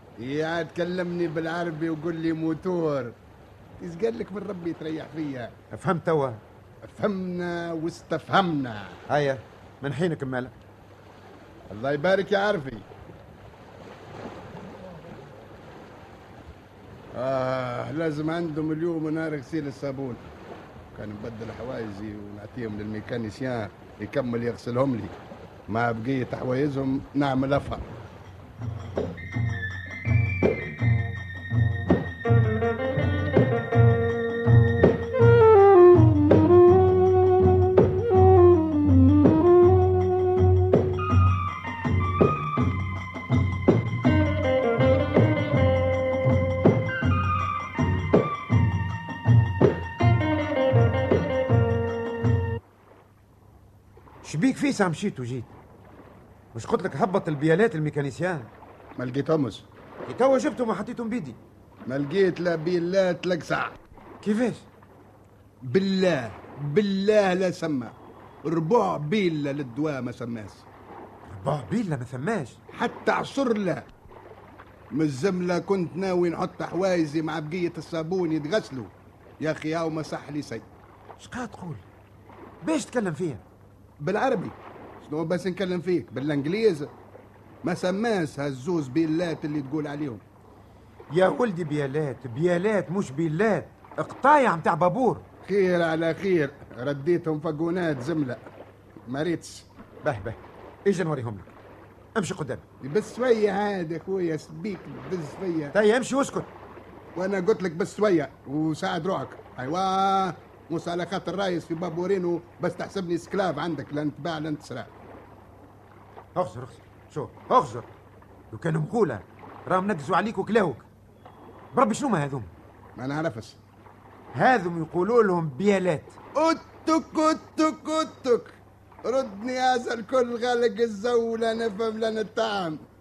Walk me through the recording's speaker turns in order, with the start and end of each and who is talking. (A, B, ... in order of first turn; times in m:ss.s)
0:00.2-0:03.2 A
0:03.8-0:05.5 A
0:05.7-0:06.4 B
0:06.8-0:09.0 A
0:09.1-0:10.6 B
0:11.7-0:12.8 A
0:17.1-0:20.2 A
0:20.9-0:27.8 A
0:54.2-0:55.5 B
0:56.5-0:58.5 B
0:59.0-0:59.7 A
1:00.0-1:01.4 B
1:01.9-1:03.8 A
1:04.2-1:04.6 B
1:05.6-1:07.9 A
1:08.4-1:10.6 A
1:11.3-1:12.6 B
1:12.7-1:13.9 A
1:14.9-1:20.6 A
1:21.2-1:21.8 B
1:22.6-1:23.4 B
1:24.0-1:26.9 A
1:27.6-1:30.2 A
1:31.1-1:35.2 B
1:35.4-1:38.4 A
1:39.1-1:39.7 A
1:40.0-1:41.5 B
1:42.2-1:42.6 B
1:42.8-1:45.7 A
1:45.7-1:46.5 B
1:47.2-1:54.9 A
1:56.4-1:57.9 B
1:58.5-2:00.9 B
2:01.7-2:02.5 B
2:03.0-2:03.6 A
2:04.3-2:06.2 B
2:06.4-2:12.8 A